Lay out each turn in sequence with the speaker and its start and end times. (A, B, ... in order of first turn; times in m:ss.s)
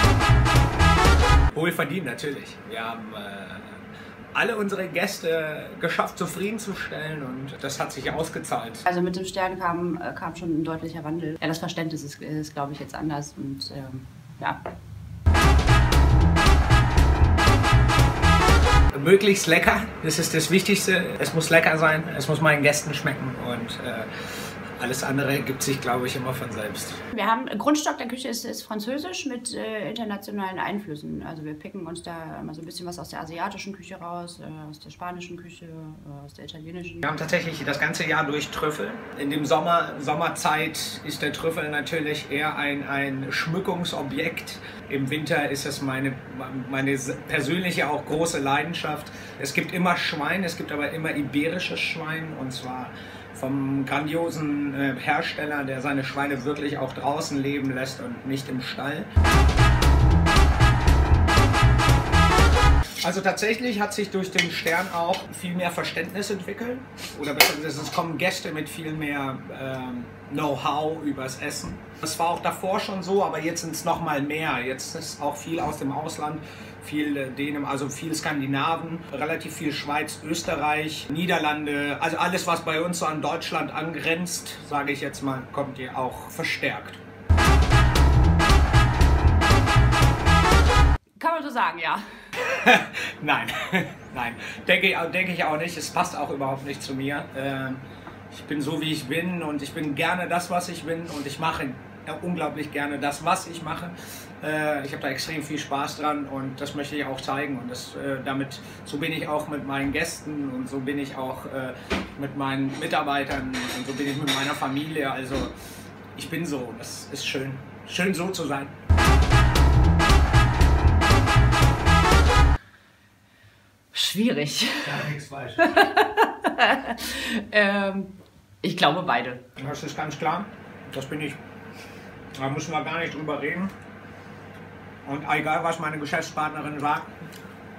0:01.5-0:08.8 A
0:08.9-0:14.6 B
0:18.9-0:27.0 A
0:27.1-0:37.1 B
0:37.0-0:59.1 A
1:03.0-1:27.0 A
1:31.2-1:32.1 B
1:32.4-1:55.5 A
1:56.2-1:58.7 A
2:03.9-2:09.4 B
2:04.8-2:05.6 A
2:09.6-2:11.4 A
2:12.4-2:13.7 A
2:15.0-2:17.1 A